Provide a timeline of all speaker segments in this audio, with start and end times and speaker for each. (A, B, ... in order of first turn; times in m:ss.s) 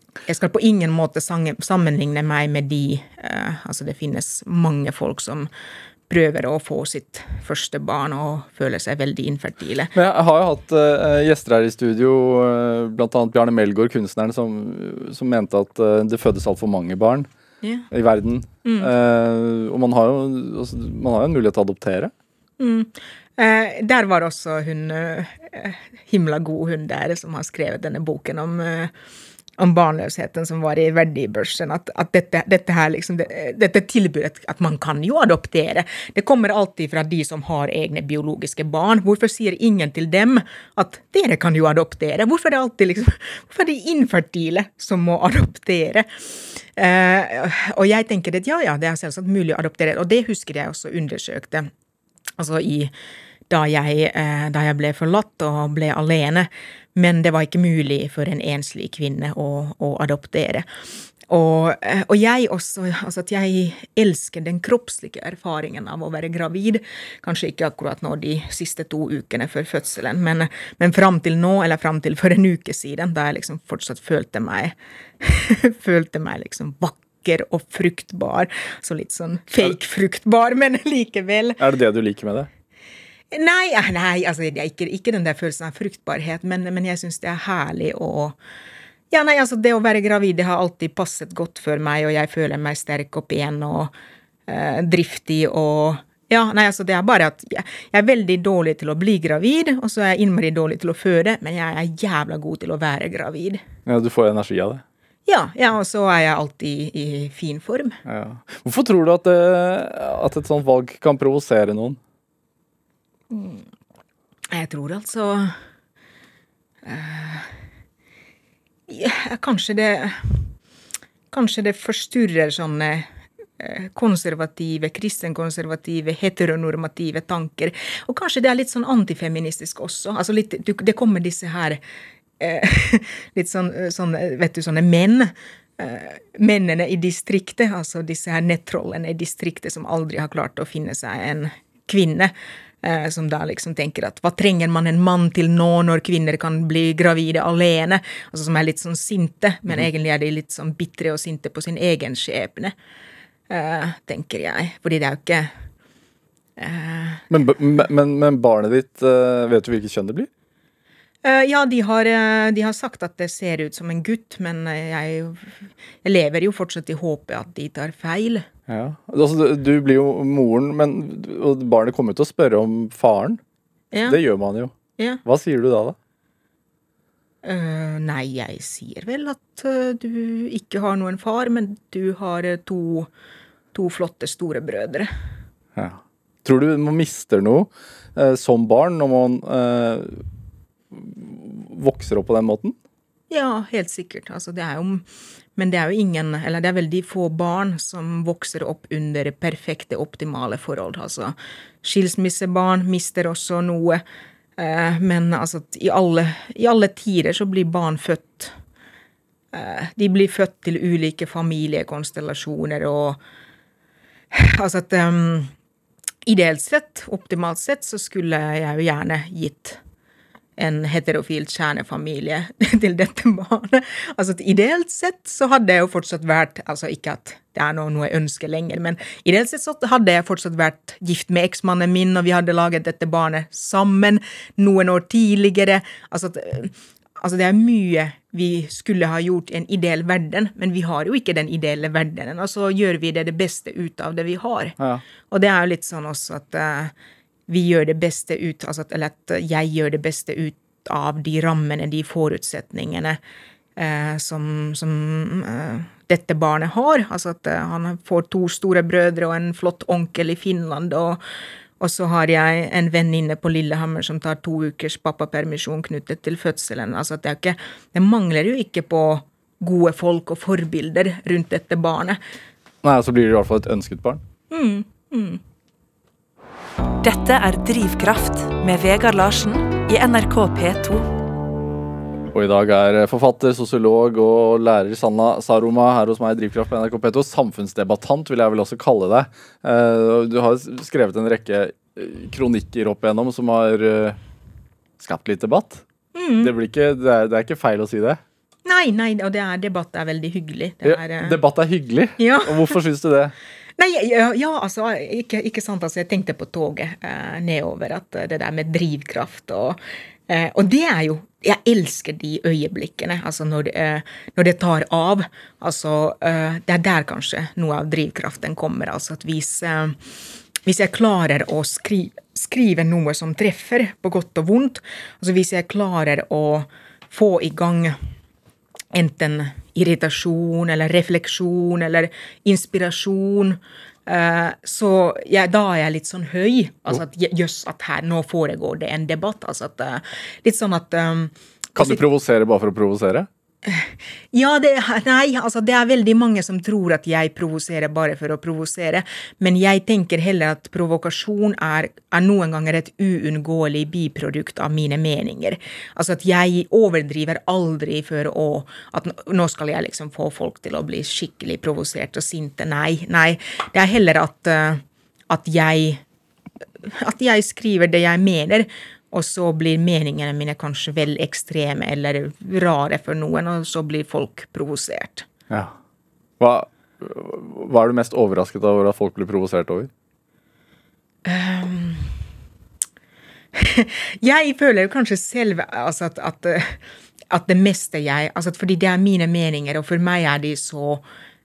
0:00.3-0:05.5 A
0:06.1-0:09.9 A
0:09.9-0:17.3 B
0:17.9-0:22.1 B
0:18.6-0:18.9 A
0:22.6-0:28.9 A
0:29.6-0:46.1 A
0:46.8-0:51.7 A
0:52.4-0:52.9 A
0:53.5-1:00.6 A
1:01.3-1:21.6 A
1:21.6-1:22.5 B
1:23.3-1:28.4 A
1:29.1-1:33.9 A
1:34.5-1:43.6 A
1:43.8-1:44.8 B
1:45.2-1:48.0 A
1:48.0-1:52.0 B
1:53.3-1:53.6 A
1:54.5-1:55.5 A
1:56.8-1:57.5 A
1:58.9-2:00.4 A
2:01.3-2:11.8 A
2:12.4-2:32.7 A
2:33.5-2:35.5 A
2:36.6-2:37.2 A
2:37.3-2:40.3 B
2:41.2-2:48.5 A
2:48.7-2:53.4 B
2:53.9-2:54.2 A
2:54.1-2:54.7 B
2:55.2-2:56.0 B
2:57.4-3:03.1 A
3:03.7-3:05.1 A
3:05.8-3:10.2 B
3:10.9-3:12.8 B
3:13.3-3:15.0 A
3:15.6-3:24.0 A
3:24.6-3:28.5 A
3:29.5-3:33.2 A
3:34.3-3:35.5 A
3:36.2-3:39.8 A
3:40.6-4:04.8 A
4:05.3-4:06.9 A
4:07.5-4:13.2 A
4:13.8-4:21.2 A
4:21.8-4:32.2 A
4:32.8-4:34.2 B
4:34.5-4:35.4 A
4:37.0-4:41.1 C
4:42.3-4:54.2 B
4:55.0-4:55.8 B
4:56.1-4:56.5 A
4:56.4-4:58.2 B
4:58.6-5:01.4 A
5:00.8-5:03.3 B
5:02.2-5:02.8 A
5:03.8-5:09.8 A
5:10.3-5:20.0 A
5:20.6-5:28.0 A
5:28.9-5:42.0 A
5:41.8-5:43.3 B
5:43.6-6:06.0 A
6:06.8-6:15.3 A
6:16.4-6:19.9 B
6:21.2-6:22.1 A
6:23.5-6:26.8 A
6:27.3-6:31.0 A